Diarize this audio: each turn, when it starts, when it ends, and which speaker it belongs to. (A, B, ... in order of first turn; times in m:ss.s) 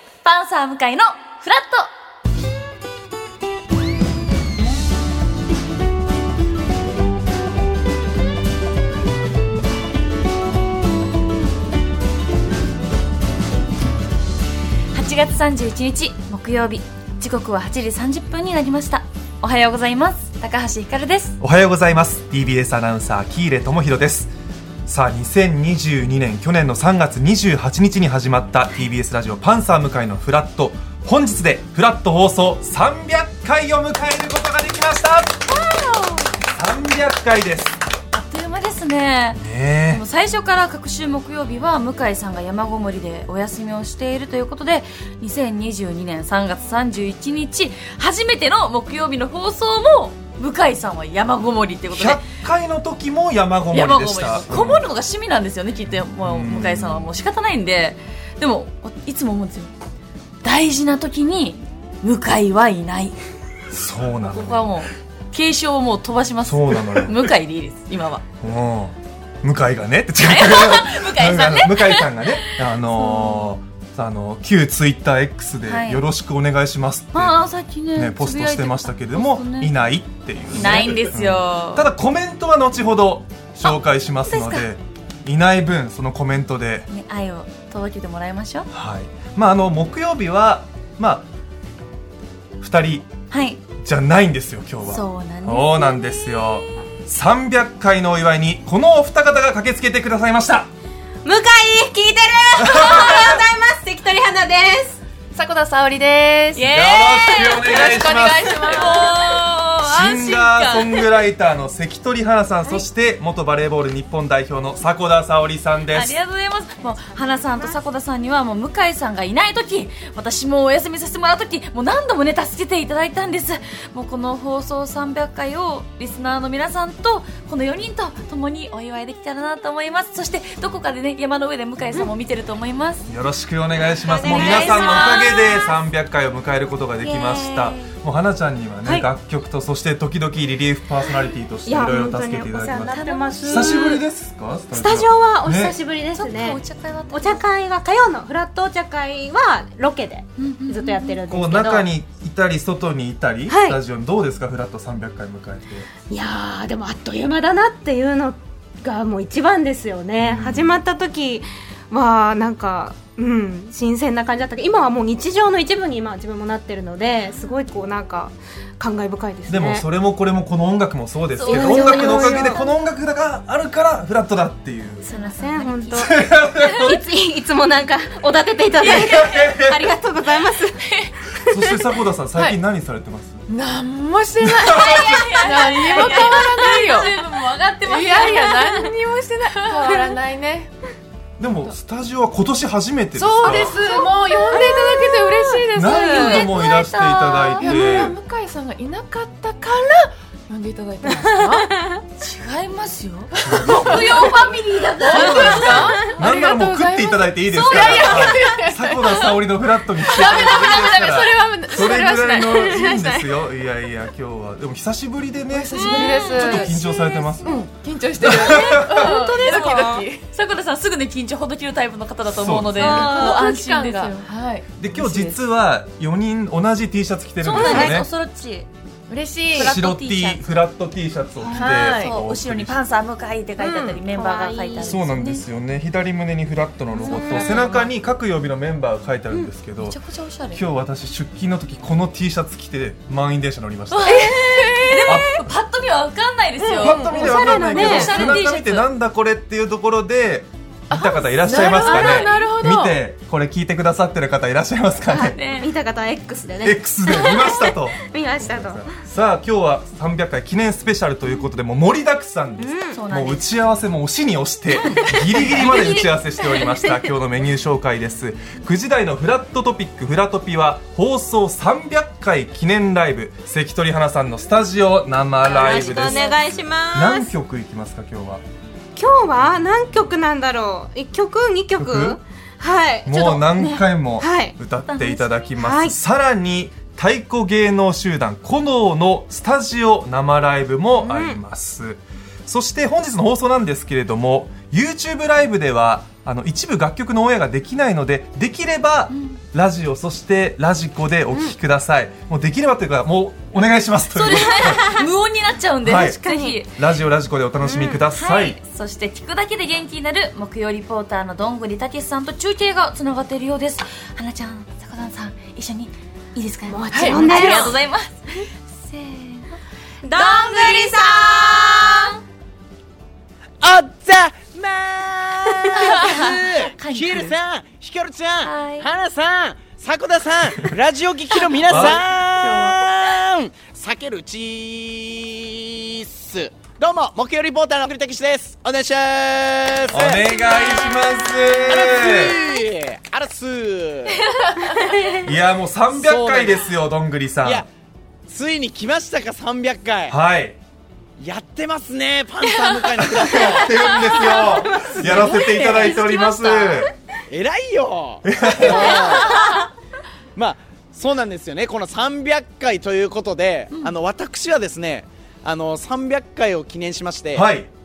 0:00.2-0:01.9 A
0:14.9-0:21.4 A
0:21.4-0:24.3 B
0:24.9-0:35.4 B
0:35.5-0:36.3 C
0:36.5-0:37.8 B
0:38.1-0:52.2 A
0:39.4-0:40.0 B
0:51.9-0:54.8 B
0:53.7-0:59.7 A
0:56.2-0:57.1 B
1:00.4-1:03.2 A
1:03.7-1:04.7 B
1:04.1-1:08.2 A
1:06.4-1:07.2 B
1:08.4-1:26.9 B
1:10.2-1:13.5 A
1:15.6-1:16.0 A
1:17.1-1:19.7 A
1:20.5-1:21.9 A
1:24.3-1:24.6 A
1:26.9-1:28.7 A
1:28.7-1:31.3 B
1:32.6-1:33.1 B
1:33.3-1:33.6 A
1:33.8-1:40.7 B
1:34.8-1:36.6 A
1:41.2-1:45.0 C
1:42.6-1:43.4 B
1:45.3-1:46.6 D
1:46.5-1:47.8 A
1:46.7-1:48.7 B
1:47.6-1:49.2 D
1:48.6-1:51.0 A
1:49.8-1:56.2 B
1:55.9-2:13.1 A
1:57.1-1:57.8 C
2:13.1-2:25.7 B
2:14.0-2:15.3 C
2:14.2-2:15.8 A
2:17.0-2:17.9 A
2:21.6-2:24.0 C
2:22.9-2:23.9 A
2:24.7-2:31.9 C
2:26.1-2:27.5 A
2:30.4-2:31.2 A
2:31.3-2:35.9 B
2:33.5-2:33.8 C
2:36.1-2:49.9 C
2:40.2-2:40.8 B
2:47.2-2:47.5 A
2:49.5-2:55.1 B
2:51.4-2:52.7 A
2:51.4-2:52.6 C
2:55.0-2:56.2 A
2:55.1-3:00.8 C
2:55.9-2:57.0 B
2:58.8-2:59.8 B
3:01.3-3:01.8 C
3:01.5-3:03.4 B
3:03.5-3:10.7 D
3:04.4-3:05.4 B
3:04.7-3:08.8 A
3:06.0-3:06.8 C
3:08.4-3:08.8 C
3:09.9-3:10.1 C
3:11.4-3:13.7 B
3:13.2-3:16.4 D
3:13.4-3:15.9 C
3:15.7-3:18.1 B
3:15.9-3:17.7 A
3:17.6-3:21.7 D
3:21.1-3:22.0 C
3:22.2-3:26.0 A
3:23.4-3:24.3 D
3:23.4-3:24.3 B
3:25.0-3:32.9 D
3:25.0-3:37.6 B
3:25.3-3:26.1 C
3:27.8-3:28.3 C
3:27.9-3:28.3 A
3:32.4-3:33.4 C
3:35.5-3:40.2 D
3:35.7-3:36.6 A
3:36.0-3:36.7 C
3:38.2-3:39.1 B
3:38.8-3:44.2 A
3:38.9-3:40.0 C
3:42.2-3:43.3 B
3:42.8-3:43.5 C
3:43.2-3:44.6 D
3:44.8-3:48.1 B
3:44.9-3:45.4 A
3:47.4-3:48.7 A
3:47.5-3:48.0 C
3:49.1-3:49.7 D
3:49.5-3:50.6 A
3:49.5-3:52.8 B
3:51.4-3:51.8 C
3:51.6-3:52.1 D
3:51.6-3:55.4 A
3:53.6-3:55.0 C
3:54.8-4:00.0 B
3:57.0-3:57.9 A
3:57.1-3:57.8 C
3:59.8-4:00.6 A
4:00.5-4:04.3 B
4:03.9-4:08.9 A
4:04.1-4:05.0 D
4:04.4-4:04.9 C
4:05.0-4:05.4 B
4:06.6-4:08.4 C
4:06.7-4:15.4 B
4:10.9-4:13.0 D
4:11.6-4:12.4 A
4:15.1-4:19.0 C
4:15.3-4:15.7 A
4:16.6-4:36.2 B
4:22.6-4:23.0 C
4:22.9-4:23.4 A
4:24.9-4:26.9 C
4:35.5-4:37.3 C
4:35.5-4:36.4 A
4:36.9-4:38.4 B
4:39.0-4:44.6 C
4:41.8-4:42.2 B
4:43.0-5:05.0 B
4:44.8-4:45.3 A
4:45.6-4:46.0 C
4:51.0-4:51.4 C
4:59.1-4:59.4 A
5:04.1-5:06.7 A
5:04.4-5:05.0 C
5:05.8-5:08.6 B
5:06.2-5:06.6 C
5:07.6-5:08.0 C
5:08.1-5:19.5 A
5:16.7-5:17.8 C
5:16.9-5:17.3 D
5:20.0-5:22.2 C
5:20.1-5:21.6 A
5:23.6-5:40.8 E
5:25.8-5:27.4 A
5:28.4-5:28.9 A
5:31.6-5:32.8 A
5:31.7-5:32.0 B
5:39.9-5:42.4 B
5:40.4-5:41.4 A
5:41.6-5:44.3 E
5:44.3-5:44.8 A
5:44.6-5:45.2 C
5:45.2-5:47.6 B
5:45.9-5:46.7 E
5:47.4-5:47.7 E
5:48.3-5:50.2 E
5:50.1-5:50.6 B
5:51.2-5:54.0 E
5:52.4-5:53.0 A
5:53.0-5:56.9 B
5:53.9-5:56.2 C
5:55.2-5:56.8 A
5:57.3-5:59.6 E
5:58.2-5:58.9 B
5:58.7-5:59.5 C
5:58.9-5:59.3 A
6:00.4-6:07.5 E
6:07.3-6:07.7 B